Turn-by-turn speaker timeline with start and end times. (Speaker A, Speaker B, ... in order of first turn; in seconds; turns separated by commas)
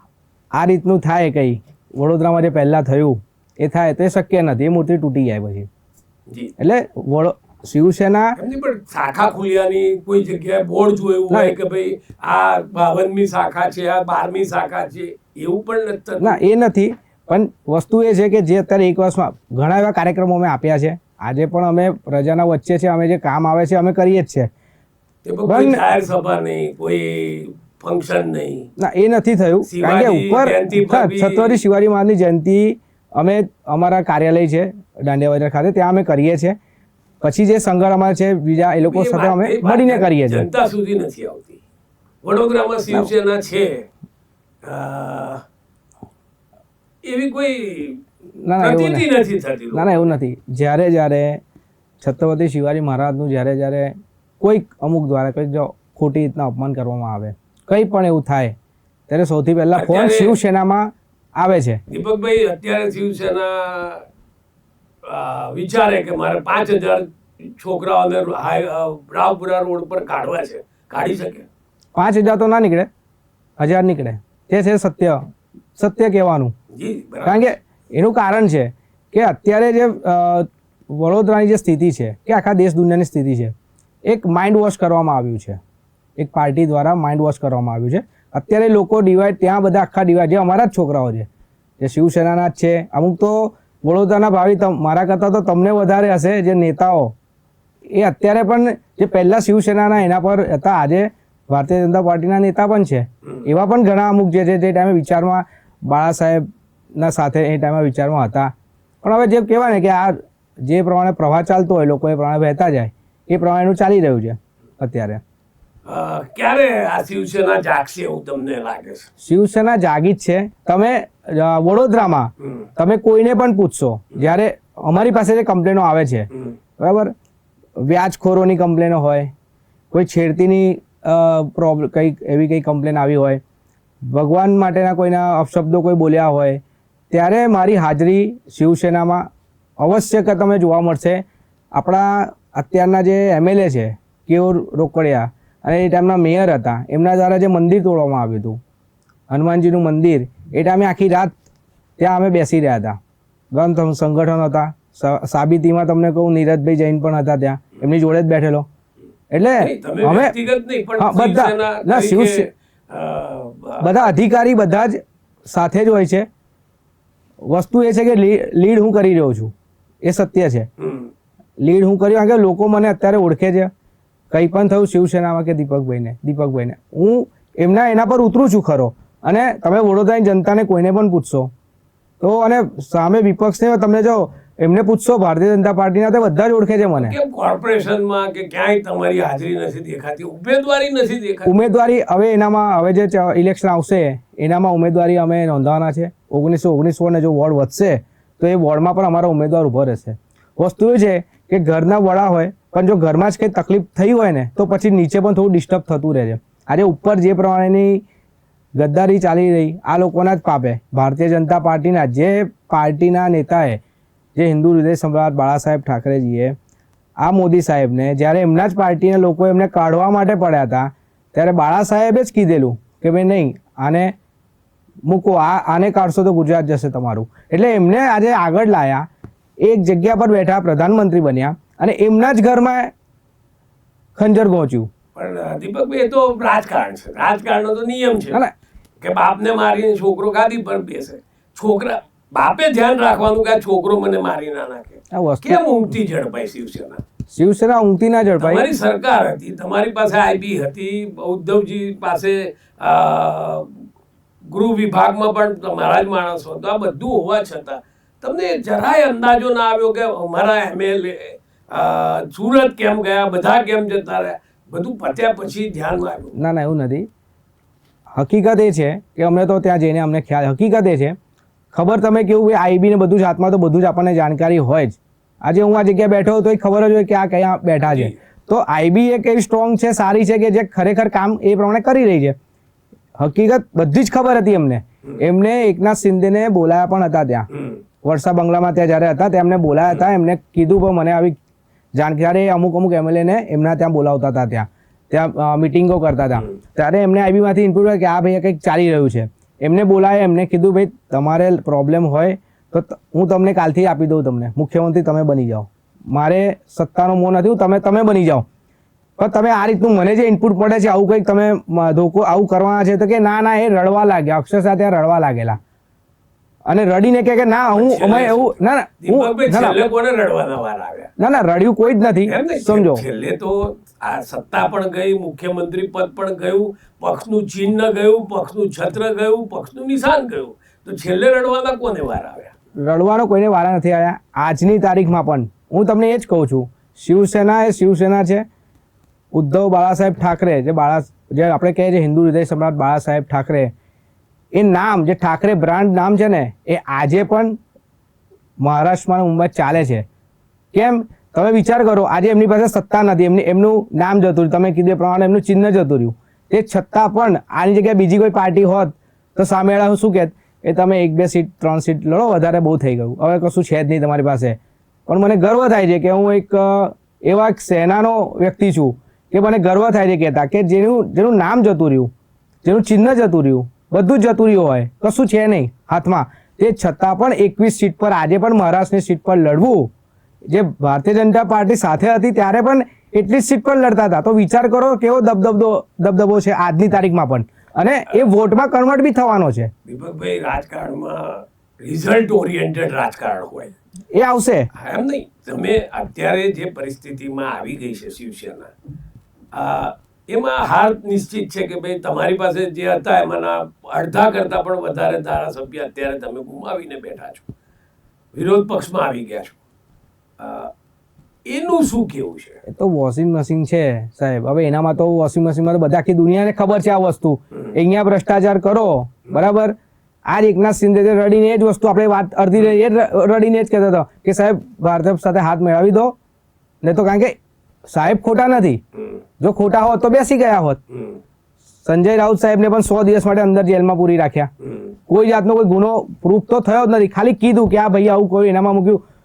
Speaker A: 0.5-5.7, Speaker B: 6.3-6.5, Speaker A: 6.6-8.4, Speaker B: 8.4-16.4, Speaker A: 11.3-11.6, Speaker A: 16.2-24.5, Speaker B: 25.2-28.7, Speaker A: 25.5-25.8, Speaker A: 28.8-36.6, Speaker B: 29.7-31.6, Speaker A: 37.2-40.5, Speaker B: 38.8-41.6, Speaker B: 42.2-43.9, Speaker B: 44.6-45.4, Speaker B: 47.0-48.0, Speaker A: 48.4-49.1, Speaker B: 48.6-50.2, Speaker A: 49.7-51.4, Speaker A: 52.0-58.5, Speaker A: 59.1-61.8, Speaker B: 59.7-60.4, Speaker B: 61.9-64.0, Speaker B: 65.0-71.5, Speaker A: 72.0-72.9, Speaker A: 73.6-75.2, Speaker A: 75.8-76.5, Speaker B: 76.7-77.5, Speaker A: 77.2-83.5, Speaker A: 84.1-85.6, Speaker A: 86.2-91.3, Speaker A: 91.8-97.2, Speaker A: 98.0-106.5, Speaker A: 107.0-108.5, Speaker A: 109.0-115.2, Speaker B: 115.9-119.1, Speaker A: 119.2-127.1, Speaker A: 127.8-129.3, Speaker A: 129.9-133.4, Speaker A: 134.0-139.3, Speaker A: 139.8-148.6, Speaker A: 149.3-151.3, Speaker A: 152.0-153.0, Speaker A: 153.5-158.7, Speaker A: 159.3-160.3, Speaker B: 159.6-164.2, Speaker A: 161.0-162.5, Speaker A: 163.8-166.3, Speaker A: 167.5-169.5, Speaker A: 170.0-170.7, Speaker B: 170.8-171.1, Speaker A: 171.6-173.7, Speaker A: 174.3-181.5, Speaker A: 182.2-187.2, Speaker B: 186.9-191.6, Speaker A: 191.5-208.0, Speaker A: 208.8-213.8, Speaker A: 214.4-216.6, Speaker A: 217.2-224.2, Speaker A: 225.1-229.1, Speaker A: 229.6-232.9, Speaker A: 234.2-234.9, Speaker B: 235.2-238.4, Speaker B: 239.0-247.0, Speaker A: 245.1-245.7, Speaker A: 247.3-248.7, Speaker B: 248.4-253.9, Speaker B: 254.4-266.4, Speaker A: 266.4-267.1, Speaker A: 268.1-271.2, Speaker A: 271.7-282.4, Speaker B: 277.8-278.2, Speaker A: 283.2-287.5, Speaker B: 287.5-287.8, Speaker A: 288.0-291.4, Speaker A: 291.9-308.4, Speaker A: 309.2-315.6, Speaker A: 316.7-319.9, Speaker B: 317.7-321.1, Speaker A: 321.2-323.0, Speaker B: 322.2-332.5, Speaker A: 332.8-338.5, Speaker A: 339.3-343.7, Speaker A: 344.5-347.6, Speaker A: 348.6-350.1, Speaker A: 350.7-372.1, Speaker A: 372.6-379.9, Speaker A: 380.5-389.7, Speaker B: 389.9-393.8, Speaker A: 394.1-394.7, Speaker B: 394.7-398.7, Speaker B: 399.5-407.5, Speaker B: 408.3-409.6, Speaker B: 410.4-410.7, Speaker B: 411.5-412.6, Speaker A: 412.7-419.8, Speaker A: 420.3-426.2, Speaker A: 426.8-427.4, Speaker A: 427.9-428.8, Speaker A: 429.4-430.8, Speaker B: 430.9-431.2, Speaker A: 431.9-434.5, Speaker A: 435.1-439.0